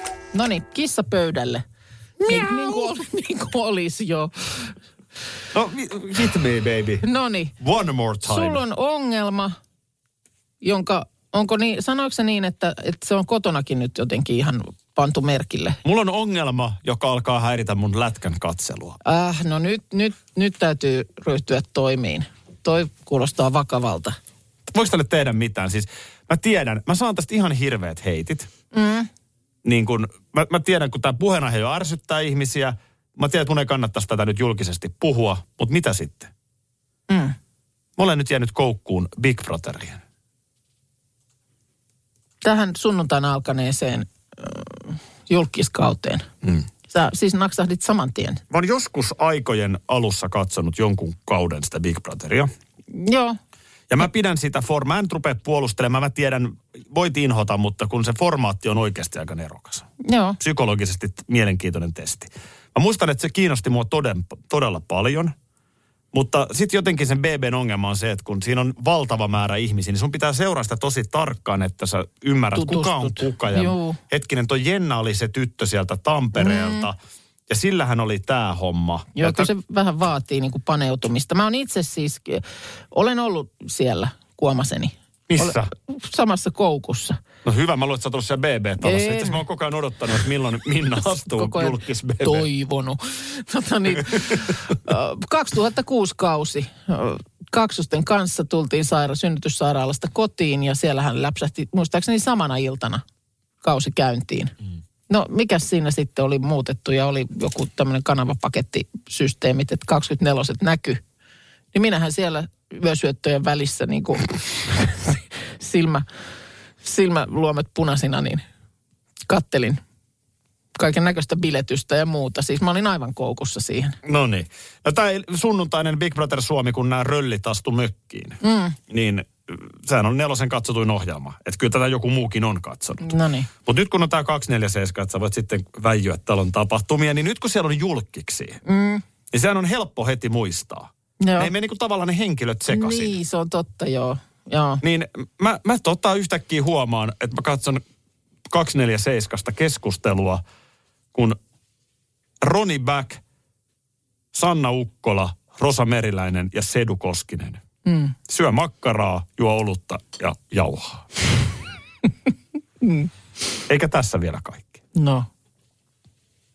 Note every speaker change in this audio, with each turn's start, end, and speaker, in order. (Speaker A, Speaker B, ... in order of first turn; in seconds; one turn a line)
Speaker A: 0.3-1.6
Speaker B: 2.2-2.9
Speaker A: 2.2-4.7
Speaker B: 5.5-7.0
Speaker A: 7.0-7.5
Speaker B: 7.6-8.6
Speaker A: 8.2-9.6
Speaker A: 10.6-15.8
Speaker B: 15.8-19.0
Speaker A: 19.0-24.2
Speaker B: 24.7-28.5
Speaker A: 28.7-29.1
Speaker B: 29.6-36.3
Speaker A: 37.1-37.4
Speaker B: 38.0-40.0
Speaker A: 42.4-46.3
Speaker A: 46.9-48.4
Speaker B: 48.5-52.5
Speaker A: 52.9-53.4
Speaker B: 53.9-59.9
Speaker A: 60.0-60.4
Speaker B: 60.4-65.3
Speaker B: 66.1-77.0
Speaker A: 72.5-74.0
Speaker A: 76.4-76.9
Speaker B: 77.5-79.5
Speaker A: 79.2-87.2
Speaker B: 85.3-85.7
Speaker B: 87.4-92.5
Speaker A: 88.8-89.4
Speaker A: 91.1-103.0
Speaker A: 103.6-104.5
Speaker A: 105.1-111.0
Speaker A: 111.7-116.1
Speaker A: 116.8-118.4
Speaker A: 119.3-119.8
Speaker A: 120.8-124.0
Speaker B: 124.0-133.1
Speaker A: 128.4-128.8
Speaker A: 133.0-133.5
Speaker B: 133.7-138.6
Speaker A: 138.7-139.0
Speaker B: 139.3-143.2
Speaker A: 141.2-141.5
Speaker A: 142.7-144.8
Speaker B: 144.8-147.8
Speaker B: 148.5-150.4
Speaker B: 152.4-153.2
Speaker B: 154.3-157.6
Speaker A: 157.9-158.2
Speaker B: 158.3-161.1
Speaker A: 162.8-163.1
Speaker B: 163.7-164.8
Speaker A: 164.9-165.3